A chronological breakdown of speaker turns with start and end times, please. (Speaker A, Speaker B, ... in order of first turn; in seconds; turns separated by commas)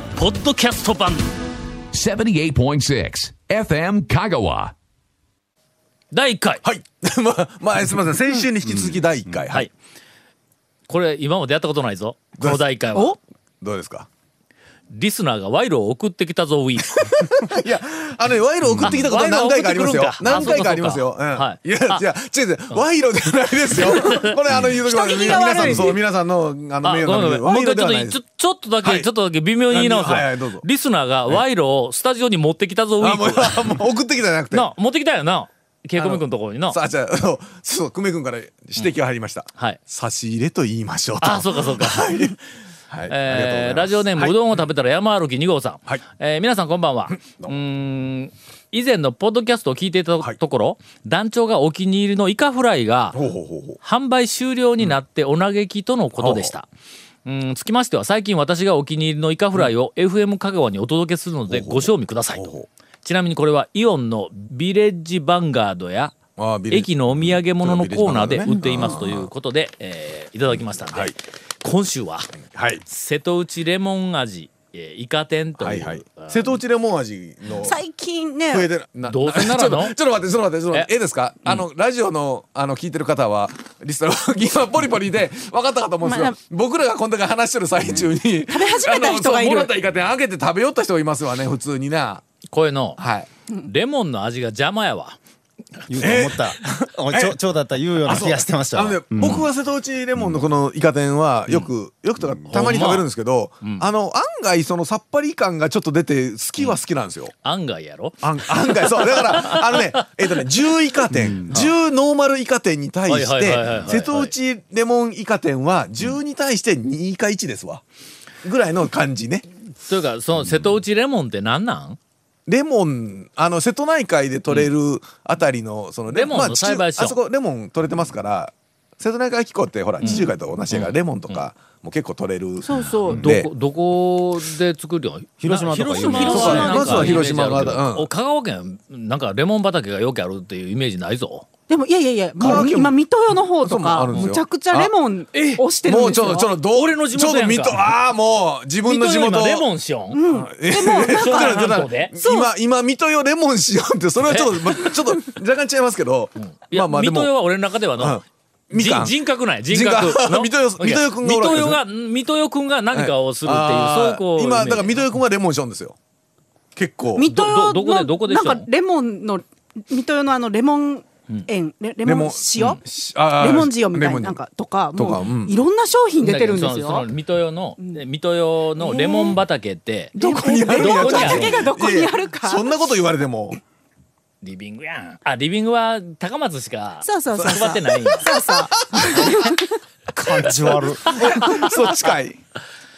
Speaker A: 0.1-1.3, Speaker B: 1.9-4.7, Speaker A: 6.1-6.6, Speaker C: 6.6-9.7, Speaker D: 8.6-9.3, Speaker A: 10.9-13.2, Speaker C: 12.4-12.7, Speaker C: 13.6-14.1, Speaker A: 14.9-17.1, Speaker C: 16.9-28.2, Speaker D: 18.6-19.0, Speaker A: 18.8-22.0, Speaker E: 20.3-20.7, Speaker A: 23.7-24.4, Speaker E: 24.8-26.0, Speaker A: 25.2-25.8, Speaker A: 26.8-33.8, Speaker C: 28.8-29.1, Speaker C: 29.7-30.6, Speaker C: 33.0-34.7, Speaker A: 34.5-36.8, Speaker C: 36.0-42.4, Speaker A: 39.5-39.8, Speaker A: 41.2-42.3, Speaker C: 42.9-44.6, Speaker A: 43.0-53.2, Speaker C: 47.1-47.5, Speaker C: 53.1-53.8, Speaker A: 53.8-56.7, Speaker C: 56.1-56.5, Speaker A: 57.2-66.1, Speaker C: 61.5-62.7, Speaker C: 66.4-69.3, Speaker A: 66.7-76.5, Speaker C: 70.9-71.1, Speaker C: 72.5-72.8, Speaker C: 75.6-77.8, Speaker E: 77.5-78.7, Speaker C: 78.5-92.2, Speaker A: 79.0-80.0, Speaker E: 86.0-86.4, Speaker E: 88.3-89.7, Speaker A: 92.5-93.0, Speaker C: 93.0-93.3, Speaker A: 93.6-95.2, Speaker A: 95.8-96.3, Speaker D: 95.9-99.5, Speaker C: 96.0-96.5, Speaker C: 97.1-97.4, Speaker C: 98.0-107.3, Speaker D: 100.2-100.4, Speaker A: 102.5-103.1, Speaker A: 103.6-103.9, Speaker A: 107.4-110.0, Speaker C: 108.2-117.8, Speaker D: 111.1-111.7, Speaker A: 113.1-114.3, Speaker C: 118.4-119.4, Speaker A: 119.7-122.0, Speaker C: 122.5-133.5, Speaker A: 126.1-127.2, Speaker A: 130.0-131.5, Speaker E: 132.6-133.2, Speaker A: 133.0-141.5, Speaker D: 135.4-137.2, Speaker E: 136.1-137.0, Speaker C: 136.2-138.1, Speaker E: 141.7-146.5, Speaker C: 142.4-142.9, Speaker C: 143.6-144.9, Speaker A: 145.3-145.6, Speaker C: 145.8-149.7, Speaker A: 146.7-147.9, Speaker A: 148.8-150.2, Speaker E: 150.1-152.5, Speaker C: 150.2-157.3, Speaker A: 151.1-152.1, Speaker A: 154.2-155.2, Speaker A: 156.3-165.1, Speaker C: 158.0-159.2, Speaker C: 159.7-161.8, Speaker C: 162.9-165.9, Speaker C: 166.8-167.3, Speaker E: 167.1-172.8, Speaker A: 167.2-168.7, Speaker C: 172.0-174.4, Speaker E: 173.3-177.1, Speaker C: 174.9-175.5, Speaker A: 176.2-180.2, Speaker E: 178.8-179.4, Speaker C: 180.1-183.6, Speaker E: 180.2-182.9, Speaker A: 180.7-181.6, Speaker A: 184.4-188.3, Speaker E: 187.0-189.7, Speaker C: 187.3-188.2, Speaker C: 188.9-189.3, Speaker D: 190.1-191.2, Speaker A: 191.1-191.6, Speaker C: 191.1-192.4